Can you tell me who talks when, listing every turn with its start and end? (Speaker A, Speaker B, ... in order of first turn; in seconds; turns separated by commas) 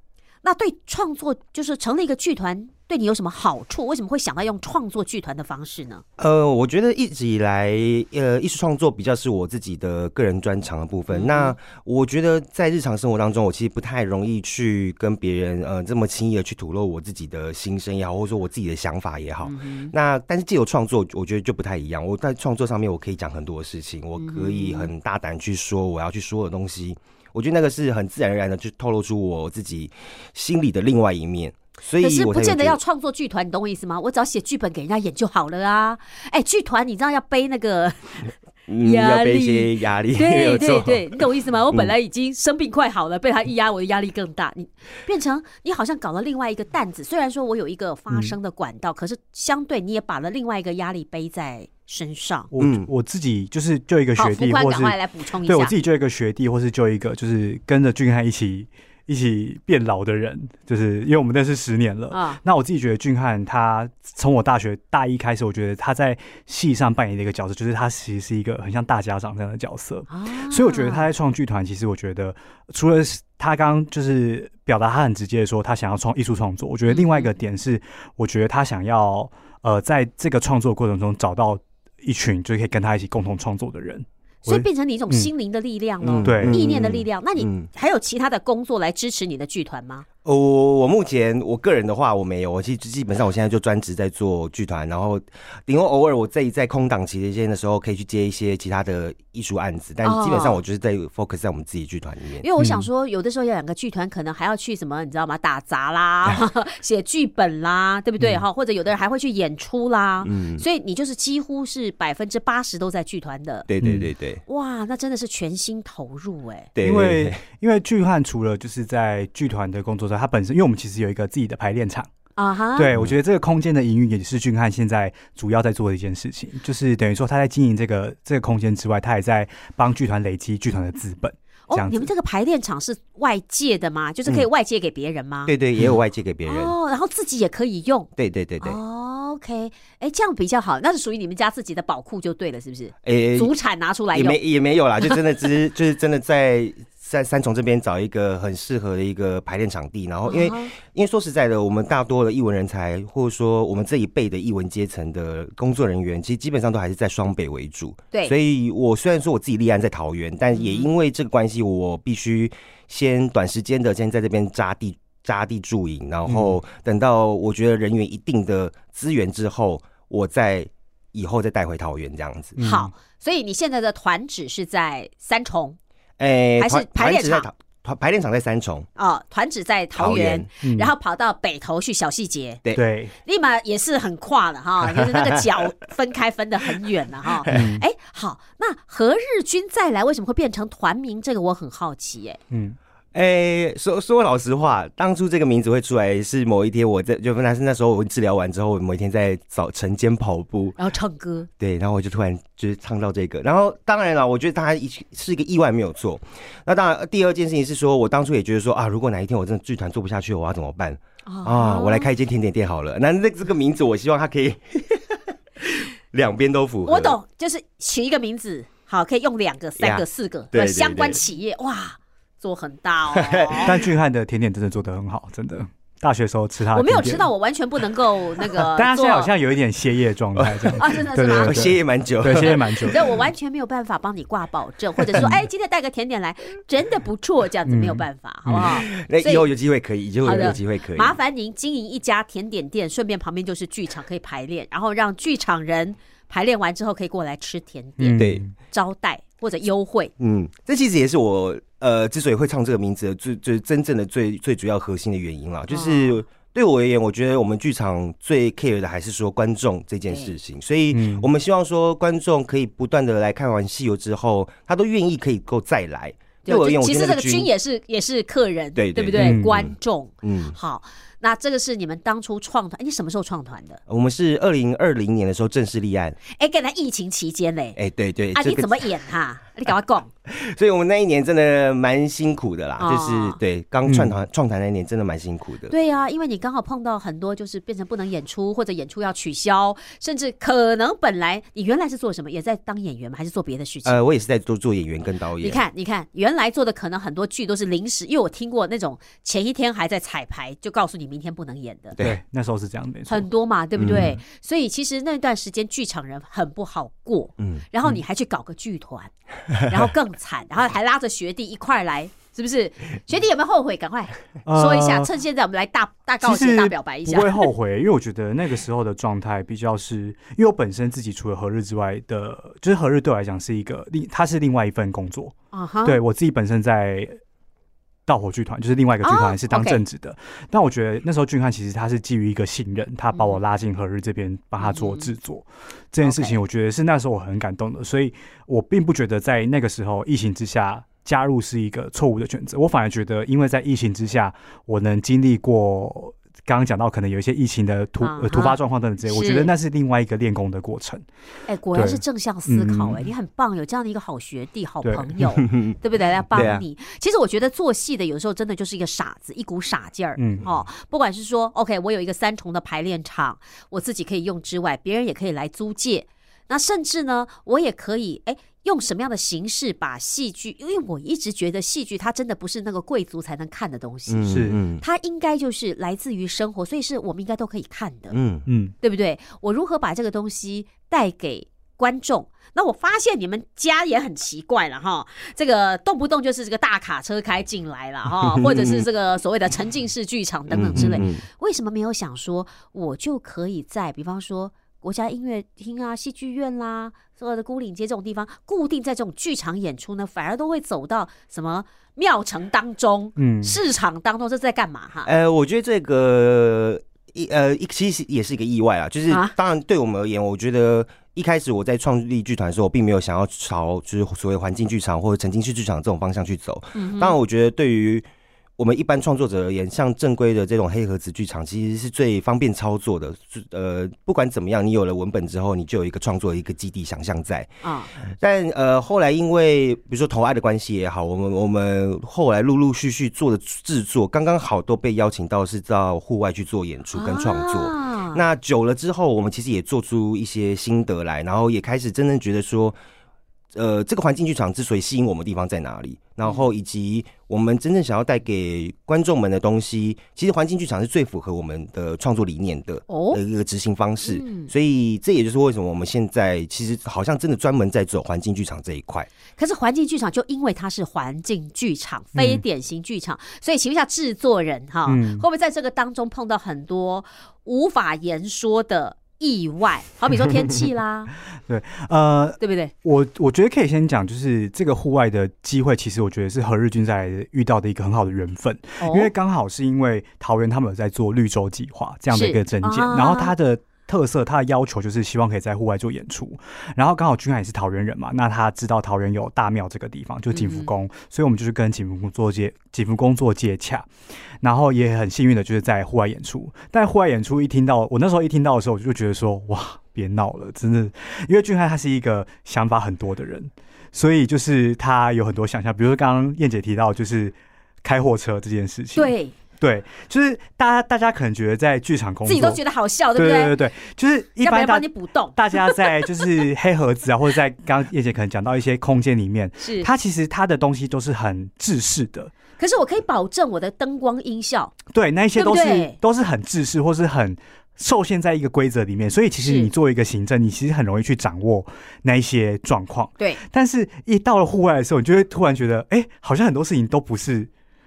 Speaker A: 0.4-6.0, Speaker B: 6.2-32.8, Speaker A: 11.1-11.5, Speaker A: 19.4-19.9, Speaker A: 24.2-24.9, Speaker A: 32.0-52.5, Speaker B: 38.7-41.9, Speaker C: 52.5-85.3, Speaker B: 52.6-52.9, Speaker A: 54.2-55.7, Speaker A: 62.1-62.4, Speaker A: 70.1-71.1, Speaker A: 76.9-77.3, Speaker A: 84.5-90.0, Speaker B: 86.0-87.7, Speaker C: 86.2-86.6, Speaker B: 90.2-102.5, Speaker A: 100.0-100.6, Speaker A: 102.4-113.7, Speaker C: 102.6-102.9, Speaker B: 110.2-110.6, Speaker B: 113.7-114.4, Speaker C: 113.8-114.1, Speaker A: 114.5-116.7, Speaker B: 116.8-117.4, Speaker C: 116.8-122.1, Speaker A: 122.4-122.9, Speaker C: 122.8-132.1, Speaker A: 131.7-135.5, Speaker B: 135.5-136.7, Speaker A: 136.4-138.1, Speaker B: 138.2-138.8, Speaker A: 138.6-144.4, Speaker B: 143.0-143.5, Speaker B: 144.1-172.6, Speaker A: 150.3-150.7, Speaker A: 160.5-160.9, Speaker C: 166.3-166.6, Speaker C: 172.6-172.9, Speaker A: 172.6-175.8, Speaker B: 176.2-178.9, Speaker A: 176.6-177.5, Speaker A: 178.9-182.6, Speaker B: 179.9-180.5, Speaker C: 180.6-180.9, Speaker C: 182.8-183.1, Speaker A: 183.2-192.4, Speaker B: 184.8-185.4, Speaker C: 187.5-187.8, Speaker C: 192.5-192.8, Speaker B: 193.1-200.8, Speaker A: 200.8-201.5, Speaker B: 201.6-217.2, Speaker A: 211.2-212.1, Speaker A: 216.8-223.7, Speaker B: 219.8-221.2, Speaker B: 223.1-223.8, Speaker C: 223.6-227.3, Speaker A: 226.7-229.3, Speaker C: 228.6-233.0, Speaker B: 230.3-233.0, Speaker A: 230.8-231.6, Speaker A: 232.3-239.4, Speaker C: 235.2-235.4, Speaker C: 237.7-238.7, Speaker B: 238.5-241.2, Speaker A: 240.2-250.1, Speaker C: 248.0-248.5, Speaker B: 248.2-248.4, Speaker B: 250.2-267.5, Speaker A: 255.7-256.2, Speaker C: 260.9-261.3, Speaker A: 266.4-273.8, Speaker B: 268.8-270.6, Speaker C: 269.1-269.6, Speaker B: 273.9-276.2, Speaker A: 276.2-277.8, Speaker B: 277.7-278.9, Speaker A: 278.3-280.1, Speaker B: 280.3-285.7, Speaker A: 282.8-283.4, Speaker C: 283.9-284.1, Speaker A: 285.7-294.0, Speaker B: 293.8-295.6, Speaker A: 295.4-301.9, Speaker C: 302.0-303.3, Speaker A: 303.1-317.5, Speaker B: 303.8-304.2, Speaker C: 314.4-315.1, Speaker C: 316.2-325.3, Speaker A: 325.5-326.0, Speaker C: 325.8-327.2, Speaker C: 328.1-351.0, Speaker A: 329.0-329.8, Speaker A: 333.1-333.4, Speaker A: 334.6-335.1, Speaker A: 336.0-336.4, Speaker A: 348.0-349.5, Speaker A: 351.5-378.1, Speaker C: 351.7-353.1, Speaker C: 354.8-355.1, Speaker B: 355.4-355.8, Speaker C: 356.3-356.6, Speaker B: 356.3-356.6, Speaker C: 360.2-360.5, Speaker B: 374.1-374.8, Speaker C: 374.3-374.6, Speaker B: 378.1-378.4, Speaker C: 378.5-378.7, Speaker A: 378.8-405.1, Speaker B: 388.2-388.9, Speaker B: 390.5-391.2, Speaker C: 390.7-391.0, Speaker C: 403.2-403.6, Speaker B: 405.0-418.0, Speaker A: 416.7-417.1, Speaker B: 418.6-442.8, Speaker A: 427.6-427.9, Speaker A: 436.9-438.2, Speaker B: 443.5-459.1, Speaker A: 452.9-453.2, Speaker A: 454.0-454.5, Speaker A: 459.4-471.1, Speaker C: 462.1-462.4, Speaker C: 464.9-465.2, Speaker C: 471.4-493.9, Speaker A: 472.4-472.7, Speaker A: 478.8-479.1, Speaker A: 482.1-483.3, Speaker A: 490.3-490.7, Speaker C: 494.4-512.6, Speaker A: 508.9-509.3, Speaker A: 512.2-513.5, Speaker C: 513.1-522.3, Speaker A: 514.4-516.3, Speaker A: 519.6-519.9, Speaker A: 522.6-524.8, Speaker C: 524.9-537.5, Speaker A: 525.4-526.0, Speaker A: 529.4-529.7